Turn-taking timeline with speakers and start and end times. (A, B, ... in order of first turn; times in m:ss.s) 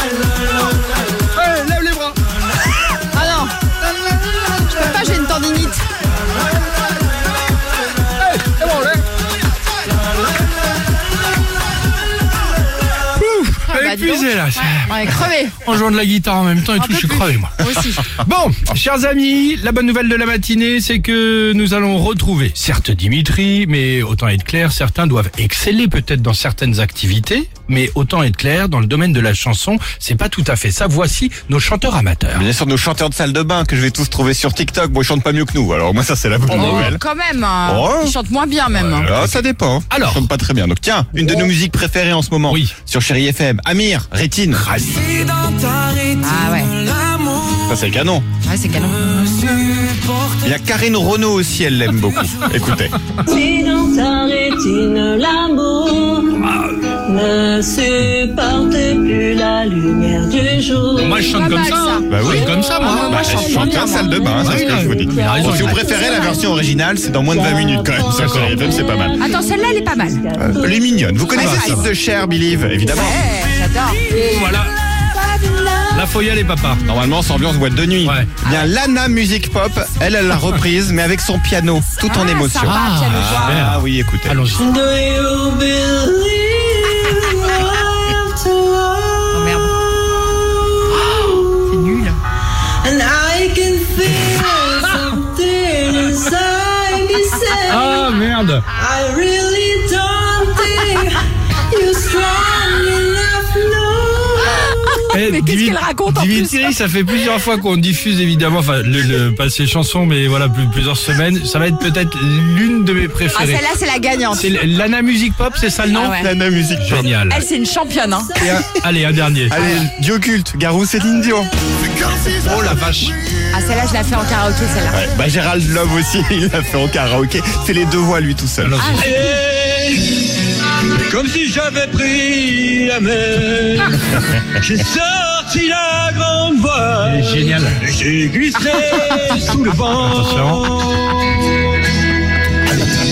0:01.3-0:02.2 A
0:03.1-0:03.5 B
0:04.7-0:05.8 B
0:08.2-0:09.0 A
0:13.2-0:32.5 A
0:13.7-0:15.6 B
0:16.8-0:18.1 B
0:32.3-0:37.0 C
0:36.5-0:36.9 A
0:36.5-0:39.2 B
0:37.6-0:38.2 C
0:38.7-0:40.3 A
0:39.0-0:44.6 C
0:44.5-0:45.2 A
0:45.2-0:46.1 D
0:46.2-0:46.8 B
0:46.8-0:47.6 D
0:47.6-0:48.3 C
0:48.4-0:49.4 B
0:49.5-0:50.3 E
0:50.4-0:52.9 C
0:53.3-1:01.4 E
0:56.4-0:56.8 A
1:00.9-1:03.1 A
1:01.2-1:02.1 B
1:02.1-1:09.2 C
1:02.2-1:06.5 E
1:02.8-1:04.1 B
1:04.4-1:05.8 A
1:07.3-1:13.2 E
1:08.1-1:08.7 A
1:09.2-1:10.2 B
1:10.4-1:13.3 C
1:11.3-1:11.9 B
1:11.4-1:11.9 A
1:12.9-1:14.0 B
1:14.1-1:14.7 A
1:15.4-1:15.7 B
1:15.5-1:15.9 E
1:15.9-1:16.8 A
1:16.8-1:24.4 C
1:18.0-1:18.3 A
1:18.4-1:18.7 B
1:22.0-1:23.8 B
1:22.6-1:24.7 A
1:24.6-1:31.8 E
1:29.3-1:29.8 B
1:31.6-1:32.2 B
1:32.8-1:38.1 E
1:37.7-1:38.7 A
1:38.8-1:44.7 E
1:44.5-1:46.6 B
1:45.1-1:53.7 A
1:53.3-1:54.5 B
1:54.4-1:56.2 A
1:55.9-1:56.3 B
1:56.1-1:57.1 C
1:56.8-1:57.5 A
1:57.3-1:58.4 B
1:58.3-1:58.6 E
1:58.4-1:59.6 A
1:59.5-2:01.5 C
2:01.9-2:02.5 D
2:02.4-2:03.2 A
2:03.5-2:05.0 B
2:04.9-2:08.9 C
2:08.6-2:09.3 A
2:08.8-2:09.3 B
2:09.0-2:10.3 D
2:10.8-2:21.5 D
2:17.0-2:17.8 A
2:19.9-2:20.6 A